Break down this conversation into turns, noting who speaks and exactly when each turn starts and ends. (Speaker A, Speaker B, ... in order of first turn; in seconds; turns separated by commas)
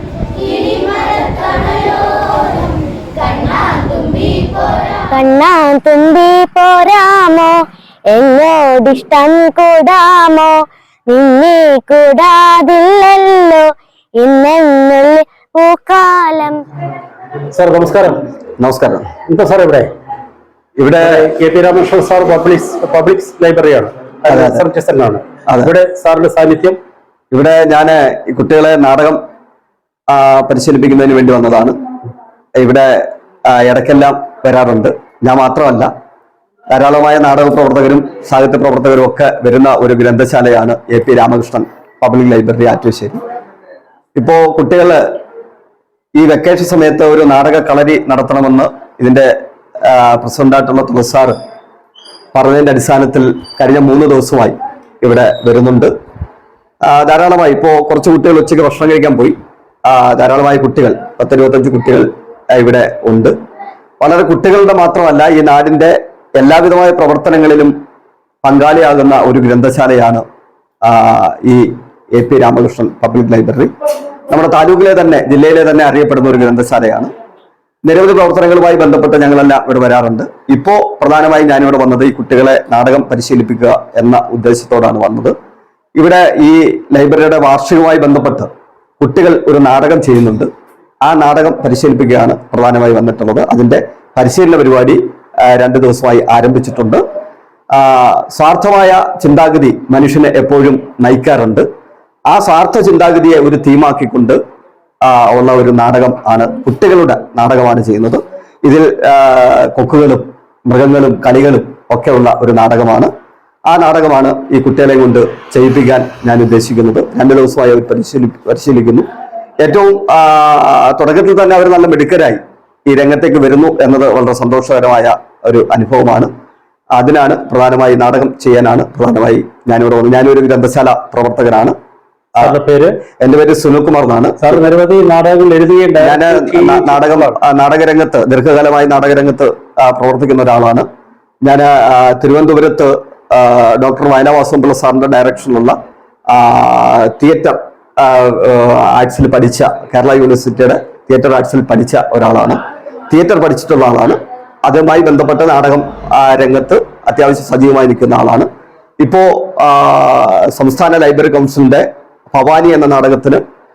Speaker A: 0.4-5.1, Speaker B: 5.1-7.5, Speaker B: 8.1-10.5, Speaker B: 11.1-13.6, Speaker B: 14.2-16.6, Speaker C: 17.5-18.2, Speaker D: 18.6-19.1, Speaker C: 19.3-19.9, Speaker D: 20.8-21.3, Speaker C: 21.0-26.8, Speaker D: 24.3-24.7, Speaker D: 27.3-29.2, Speaker D: 30.1-31.7, Speaker D: 32.6-32.9, Speaker D: 33.5-35.9, Speaker D: 36.7-43.2, Speaker D: 44.1-45.0, Speaker D: 46.2-49.3, Speaker D: 49.9-51.3, Speaker D: 52.3-55.9, Speaker D: 56.9-59.3, Speaker D: 59.9-63.3, Speaker D: 64.0-67.7, Speaker D: 68.4-70.2, Speaker D: 70.8-71.6, Speaker D: 72.1-73.7, Speaker D: 74.3-77.1, Speaker D: 77.8-85.3, Speaker D: 86.0-90.5, Speaker D: 91.0-97.0, Speaker D: 97.7-101.7, Speaker D: 102.3-104.4, Speaker D: 105.0-113.1, Speaker D: 113.7-119.0, Speaker D: 119.6-126.3, Speaker D: 127.0-131.7, Speaker C: 132.4-132.9, Speaker D: 133.2-134.7, Speaker C: 134.4-137.2, Speaker D: 136.0-140.8, Speaker D: 141.4-145.7, Speaker D: 146.3-152.6, Speaker D: 153.1-158.5, Speaker D: 159.0-163.4